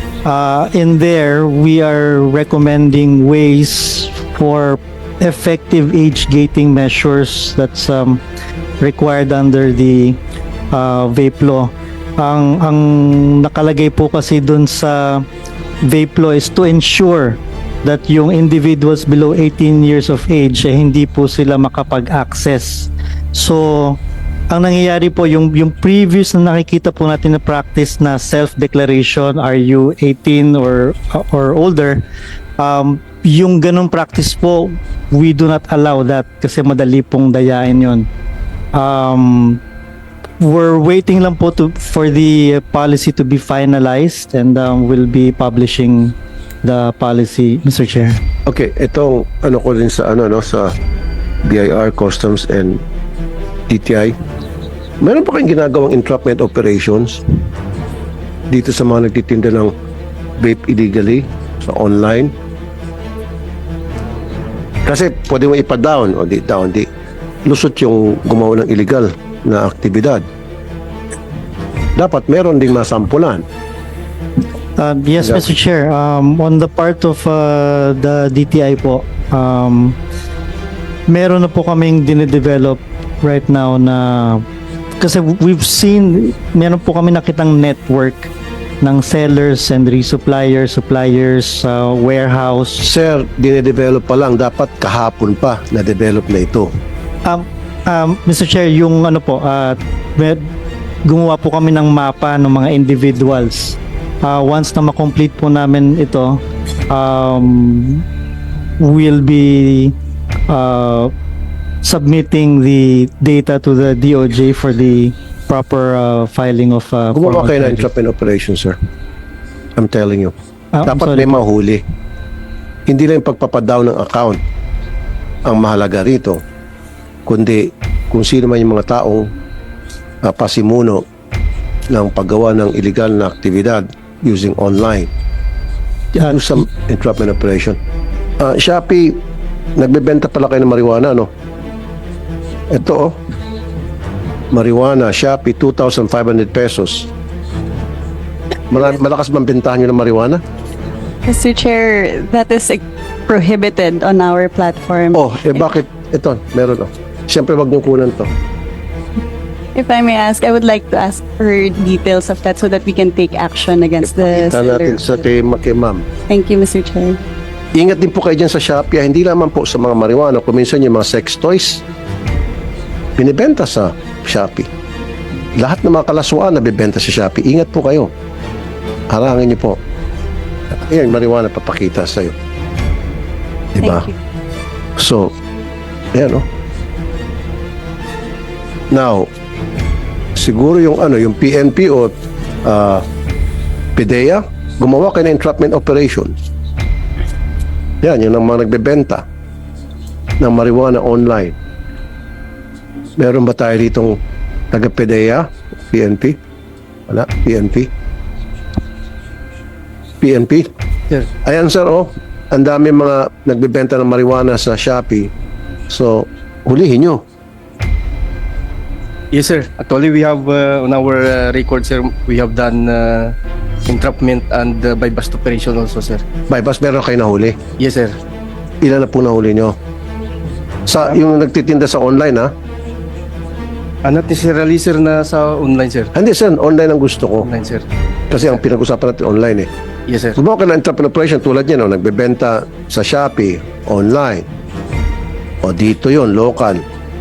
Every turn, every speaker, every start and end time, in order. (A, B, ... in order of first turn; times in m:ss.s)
0:00.2-0:08.2 A
0:08.8-0:10.2 A
0:10.7-0:15.2 A
0:15.8-0:24.0 A
0:24.5-0:32.0 A
0:32.6-0:38.1 A
0:38.7-0:39.6 A
0:40.4-0:48.2 A
0:48.5-0:50.7 B
0:51.4-0:52.8 B
0:53.7-0:54.2 B
0:55.0-0:57.2 B
0:58.5-0:59.7 B
1:00.4-1:02.3 B
1:04.8-1:06.9 B
1:07.4-1:10.2 B
1:12.0-1:13.4 B
1:14.8-1:20.0 A
1:21.1-1:24.4 A
1:25.0-1:28.3 A
1:28.8-1:32.8 A
1:32.8-1:36.7 B
1:37.2-1:40.5 A
1:41.0-1:48.0 A
1:48.8-1:49.9 A
1:50.5-1:51.1 A
1:51.8-1:57.9 A
1:57.1-1:58.8 B
1:59.8-2:00.3 B
2:00.7-2:01.4 A
2:00.9-2:01.8 B
2:02.9-2:04.4 B
2:05.4-2:06.4 B
2:07.2-2:09.3 B
2:10.2-2:11.0 B
2:11.9-2:15.1 B
2:16.2-2:16.6 A
2:16.2-2:17.8 B
2:18.4-2:19.2 B
2:19.8-2:21.3 B
2:22.7-2:23.2 B
2:24.5-2:27.1 B
2:28.7-2:30.4 B
2:31.3-2:35.6 C
2:35.1-2:38.3 B
2:39.7-2:45.2 C
2:44.0-2:46.0 B
2:46.3-2:47.2 C
2:47.7-2:51.8 B
2:53.2-2:54.7 B
2:55.6-2:58.1 B
2:59.1-2:59.8 B
3:00.7-3:02.3 B
3:03.8-3:04.1 B
3:05.0-3:05.3 B
3:06.1-3:06.4 B
3:08.9-3:09.3 B
3:10.4-3:13.0 B
3:14.0-3:16.3 B
3:18.0-3:19.2 B
3:20.4-3:21.5 B
3:23.2-3:24.2 B
3:24.7-3:26.4 B
3:27.1-3:27.9 B
3:30.2-3:30.7 B
3:31.4-3:35.3 B
3:35.9-3:37.2 B
3:39.3-3:43.3 D
3:43.9-3:46.2 D
3:46.5-3:47.6 B
3:47.8-3:48.1 D
3:48.8-3:49.8 B
3:50.9-3:52.5 B
3:54.0-3:56.1 D
3:56.1-3:57.5 B
3:57.4-3:57.8 D
3:58.3-3:59.7 B
4:00.1-4:00.4 D
4:00.4-4:04.4 B
4:05.6-4:06.8 B